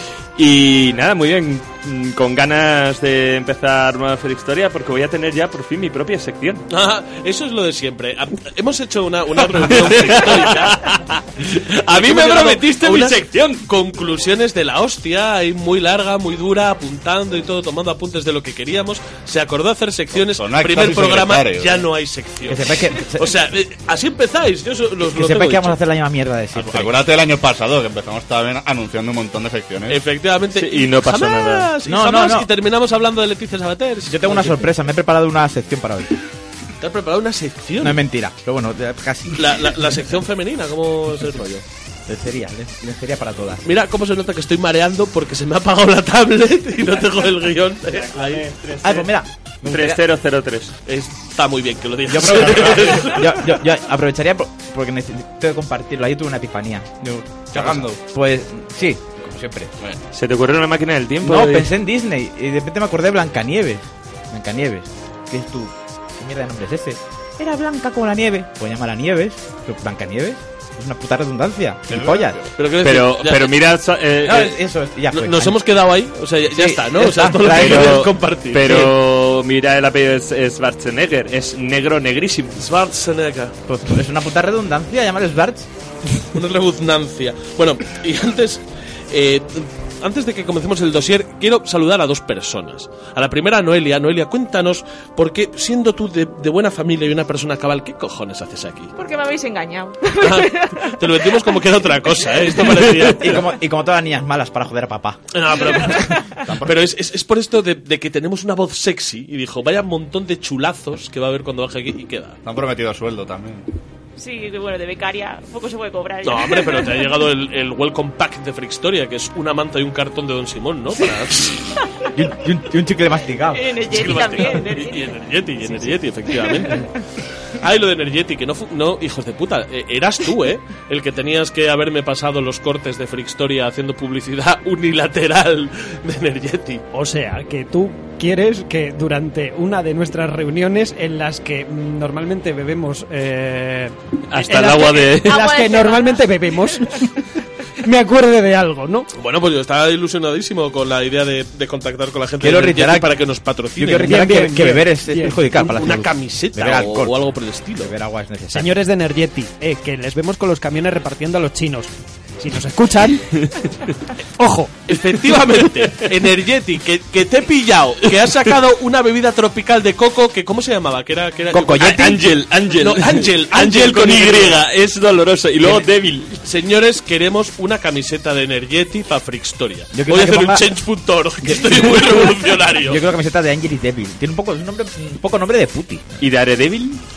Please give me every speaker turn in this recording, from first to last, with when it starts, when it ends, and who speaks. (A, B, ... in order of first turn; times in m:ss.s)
0:00.4-0:06.6 A
0:06.7-0:10.9 B
0:09.6-0:13.6 A
0:11.8-0:25.8 B
0:20.2-0:21.8 C
0:22.5-0:23.2 D
0:25.1-0:27.0 D
0:26.6-0:30.0 C
0:29.9-0:34.7 B
0:30.6-0:31.7 A
0:31.8-0:32.5 D
0:34.1-0:36.1 D
0:36.8-0:38.0 B
0:37.8-0:39.6 D
0:39.3-0:41.6 B
0:42.1-0:43.7 D
0:43.6-0:48.4 B
0:47.9-0:49.1 A
0:48.8-0:50.0 D
0:49.6-0:50.7 A
0:50.8-0:53.3 B
0:52.1-0:59.7 D
0:52.5-0:52.8 C
0:57.6-0:57.9 C
1:00.1-1:01.7 A
1:01.2-1:12.4 D
1:11.9-1:12.5 C
1:12.6-1:13.6 B
1:12.8-1:14.6 A
1:14.2-1:15.6 D
1:15.1-1:18.9 B
1:16.5-1:18.1 D
1:17.5-1:22.6 A
1:22.6-1:23.6 B
1:23.7-1:25.7 D
1:26.3-1:38.9 B
1:39.0-1:41.6 E
1:40.2-1:43.5 B
1:42.3-1:42.6 E
1:43.2-1:45.2 D
1:45.3-1:52.4 B
1:46.5-1:46.8 C
1:52.4-1:53.6 C
1:54.2-1:57.2 E
1:56.2-2:01.6 B
2:01.0-2:01.8 E
2:02.1-2:03.7 D
2:03.5-2:05.2 E
2:03.9-2:06.8 B
2:06.3-2:06.9 E
2:07.6-2:16.8 B
2:16.9-2:27.2 F
2:24.3-2:25.4 A
2:25.3-2:26.3 E
2:27.8-2:29.1 F
2:29.1-2:34.6 B
2:32.4-2:33.1 D
2:33.8-2:37.2 D
2:34.0-2:35.5 F
2:35.5-2:37.9 B
2:37.8-2:38.8 D
2:38.5-2:43.3 F
2:44.4-2:44.7 F
2:44.9-2:54.6 B
2:51.5-2:52.1 D
2:51.5-2:56.4 A
2:56.4-3:03.1 B
2:59.9-3:00.7 D
3:01.4-3:06.1 D
3:06.2-3:07.0 A